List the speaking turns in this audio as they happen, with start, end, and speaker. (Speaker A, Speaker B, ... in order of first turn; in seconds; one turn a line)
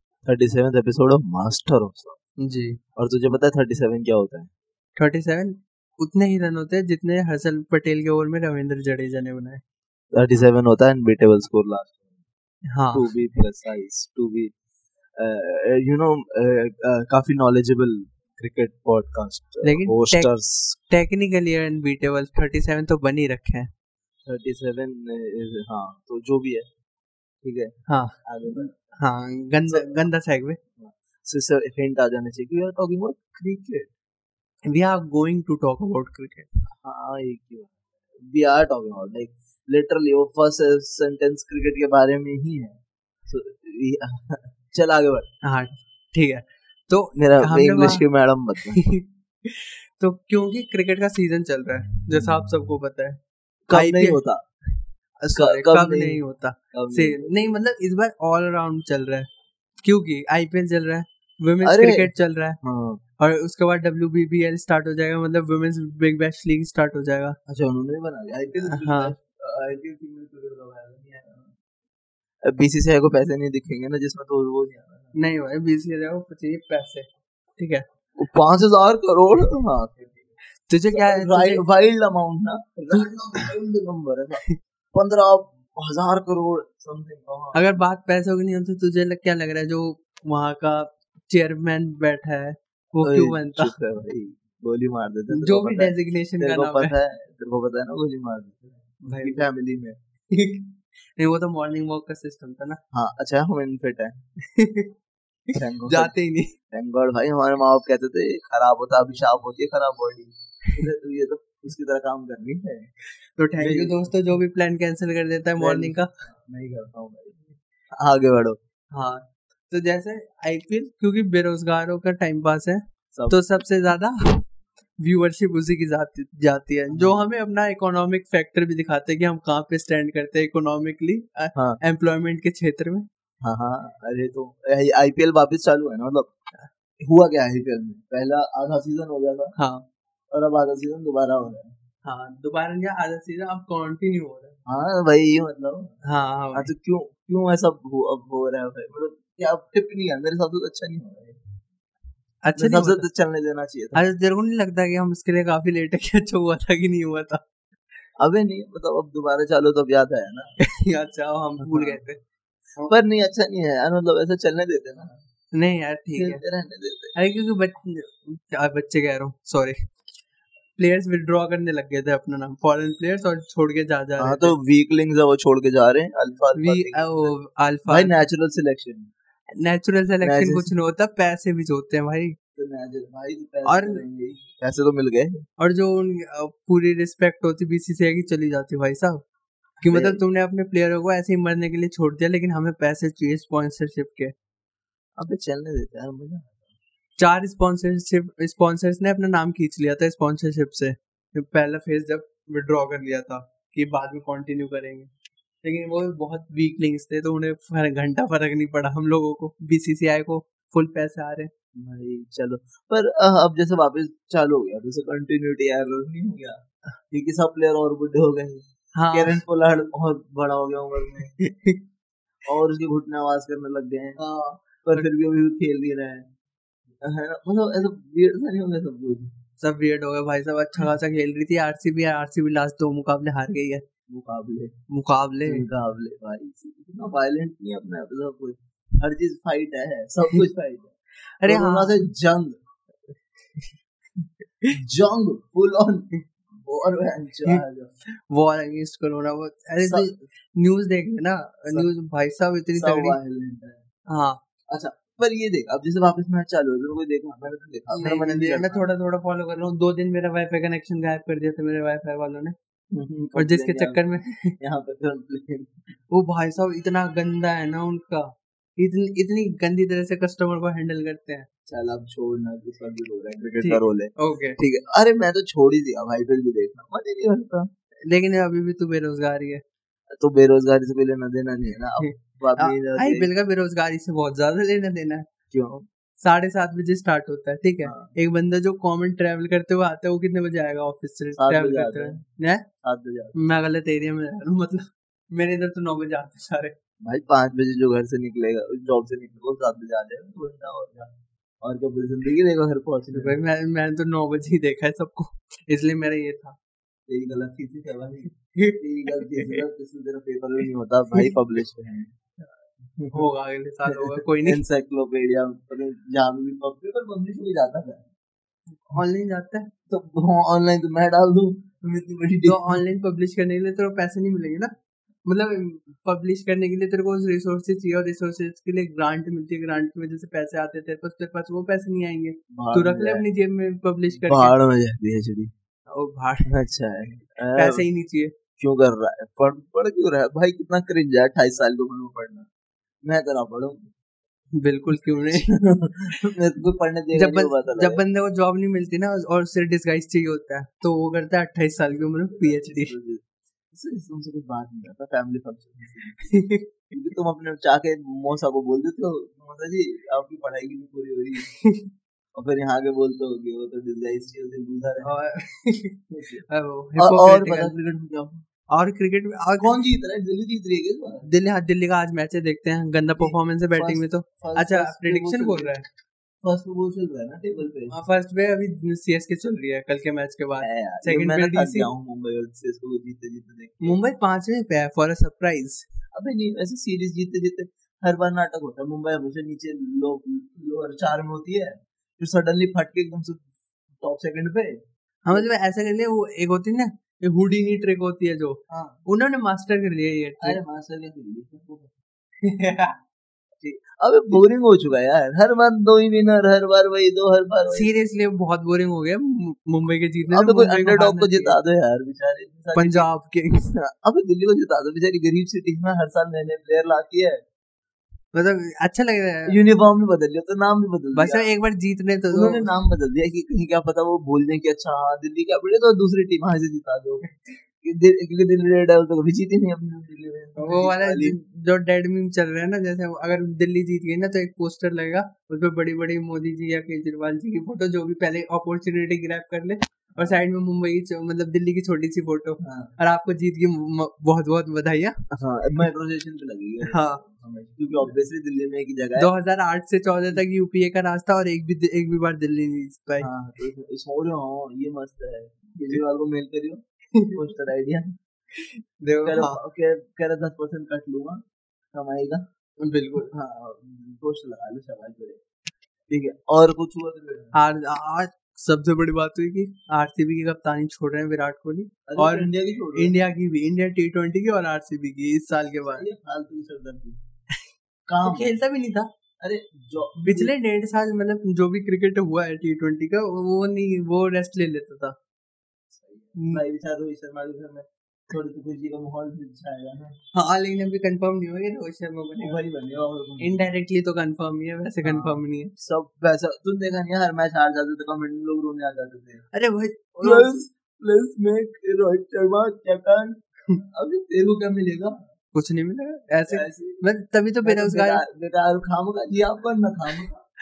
Speaker A: 0.2-2.2
Speaker B: 2.4-2.8
Speaker A: 3.0-4.5
Speaker B: 5.0-9.6
Speaker A: 10.1-12.1
Speaker B: 12.7-13.1
Speaker A: 12.9-14.5
Speaker A: 15.2-20.8
Speaker B: 19.6-20.3
Speaker B: 20.9-23.7
Speaker A: 24.2-26.7
Speaker A: 27.4-27.7
Speaker B: 27.9-30.6
Speaker A: 28.2-28.7
Speaker A: 29.7-30.0
Speaker A: 30.8-33.9
Speaker B: 34.7-36.5
Speaker A: 36.8-45.3
Speaker B: 45.4-48.0
Speaker A: 47.1-48.8
Speaker B: 48.6-53.2
Speaker A: 53.7-54.4
Speaker B: 53.7-54.2
Speaker B: 55.2-59.3
Speaker A: 55.3-56.2
Speaker A: 56.7-57.3
Speaker B: 59.8-62.6
Speaker A: 61.6-62.1
Speaker A: 62.6-63.0
Speaker B: 63.2-67.4
Speaker A: 67.5-71.5
Speaker B: 68.6-69.1
Speaker A: 72.4-75.1
Speaker B: 75.2-77.8
Speaker A: 78.2-80.3
Speaker B: 80.7-81.6
Speaker A: 80.9-87.7
Speaker B: 87.5-93.7
Speaker A: 93.0-100.0
Speaker B: 95.3-96.9
Speaker B: 99.0-99.5
Speaker B: 100.3-102.8
Speaker A: 102.9-104.2
Speaker B: 104.4-104.9
Speaker B: 105.5-106.5
Speaker A: 105.5-106.1
Speaker A: 106.7-112.9
Speaker B: 113.3-116.1
Speaker A: 113.6-114.1
Speaker A: 115.6-118.6
Speaker B: 118.9-124.5
Speaker A: 123.1-123.4
Speaker B: 125.0-133.1
Speaker A: 126.9-127.2
Speaker A: 131.5-131.8
Speaker A: 133.4-136.3
Speaker A: 137.0-139.5
Speaker B: 139.6-139.9
Speaker A: 140.3-141.7
Speaker B: 142.0-144.6
Speaker A: 144.7-145.9
Speaker B: 146.0-146.7
Speaker A: 146.5-151.4
Speaker B: 152.4-153.0
Speaker A: 152.6-154.0
Speaker B: 153.9-157.4
Speaker A: 158.2-160.5
Speaker B: 160.6-162.2
Speaker A: 161.6-162.0
Speaker A: 162.9-165.2
Speaker B: 165.5-166.4
Speaker A: 166.2-167.1
Speaker B: 167.1-169.8
Speaker B: 170.8-174.6
Speaker A: 174.2-177.3
Speaker B: 176.6-178.1
Speaker A: 177.9-179.1
Speaker B: 179.5-182.3
Speaker A: 180.2-180.7
Speaker A: 182.6-185.4
Speaker B: 183.7-184.0
Speaker B: 185.6-189.2
Speaker B: 189.8-194.3
Speaker A: 189.9-190.2
Speaker A: 195.2-196.6
Speaker B: 197.2-205.1
Speaker B: 205.6-211.5
Speaker A: 211.8-221.3
Speaker B: 218.9-219.4
Speaker B: 221.2-221.8
Speaker A: 222.5-224.2
Speaker B: 224.2-225.1
Speaker A: 224.8-226.3
Speaker A: 227.0-229.3
Speaker B: 229.6-233.8
Speaker A: 234.1-234.7
Speaker B: 234.9-235.6
Speaker A: 235.4-240.9
Speaker B: 241.4-241.9
Speaker A: 241.4-242.6
Speaker A: 244.7-247.9
Speaker B: 247.5-253.2
Speaker A: 249.8-250.1
Speaker A: 252.8-253.8
Speaker B: 254.1-254.4
Speaker A: 254.7-258.8
Speaker B: 257.9-262.5
Speaker A: 262.9-264.0
Speaker B: 263.4-264.6
Speaker A: 264.6-265.8
Speaker B: 266.1-271.5
Speaker A: 271.7-277.7
Speaker B: 273.6-274.6
Speaker B: 278.1-279.6
Speaker A: 280.1-283.3
Speaker B: 282.0-285.2
Speaker A: 285.5-285.8
Speaker B: 286.2-292.6
Speaker A: 287.8-288.1
Speaker A: 291.4-292.2
Speaker A: 292.8-293.4
Speaker B: 293.3-296.7
Speaker A: 297.0-301.1
Speaker A: 301.6-303.4
Speaker B: 303.1-306.6
Speaker A: 307.1-312.1
Speaker B: 308.4-309.6
Speaker A: 312.9-313.3
Speaker B: 313.1-314.6
Speaker A: 313.9-318.1
Speaker B: 318.8-319.7
Speaker A: 319.9-322.8
Speaker B: 322.4-324.7
Speaker B: 325.2-334.5
Speaker A: 332.5-333.2
Speaker A: 334.2-335.5
Speaker B: 335.9-336.5
Speaker A: 336.5-337.8
Speaker B: 337.5-338.3
Speaker A: 338.6-342.5
Speaker A: 343.0-343.9
Speaker B: 344.6-345.5
Speaker A: 345.3-348.0
Speaker B: 347.1-352.9
Speaker A: 351.9-356.2
Speaker B: 356.2-356.7
Speaker A: 356.9-361.5
Speaker B: 361.4-361.9
Speaker A: 362.3-365.1
Speaker B: 365.0-367.7
Speaker A: 366.1-366.4
Speaker A: 367.0-368.4
Speaker B: 368.7-369.7
Speaker A: 369.6-371.3
Speaker B: 371.2-375.8
Speaker A: 373.2-375.7
Speaker A: 376.4-377.9
Speaker B: 377.9-381.9
Speaker A: 380.6-384.0
Speaker B: 383.8-385.8
Speaker A: 386.1-393.4
Speaker A: 394.0-394.8
Speaker B: 395.2-400.6
Speaker A: 398.7-399.0
Speaker A: 400.4-401.9
Speaker B: 402.4-403.0
Speaker A: 403.6-407.9
Speaker B: 407.7-411.6
Speaker A: 410.3-413.1
Speaker B: 412.7-413.7
Speaker A: 413.7-417.4
Speaker B: 418.3-419.6
Speaker A: 419.5-421.5
Speaker B: 421.1-422.7
Speaker A: 422.3-427.2
Speaker B: 427.2-427.6
Speaker A: 427.8-431.4
Speaker B: 430.6-445.2
Speaker A: 442.6-442.9
Speaker A: 445.3-449.3
Speaker B: 446.8-447.2
Speaker B: 449.2-453.3
Speaker A: 453.2-456.8
Speaker A: 457.3-458.1
Speaker B: 458.5-459.6
Speaker A: 459.2-462.4
Speaker B: 462.8-463.3
Speaker A: 463.2-465.4
Speaker A: 466.1-467.6
Speaker B: 467.5-476.1
Speaker A: 472.1-473.1
Speaker A: 475.8-477.2
Speaker A: 478.1-478.5
Speaker B: 478.2-479.1
Speaker A: 479.4-480.5
Speaker B: 480.2-485.1
Speaker A: 485.9-490.1
Speaker B: 486.4-486.6
Speaker B: 490.3-492.6
Speaker A: 492.4-493.6
Speaker B: 493.4-495.7
Speaker A: 495.0-499.4
Speaker B: 499.5-500.5
Speaker A: 500.2-505.2
Speaker B: 505.5-508.2
Speaker A: 506.5-507.0
Speaker A: 507.6-510.4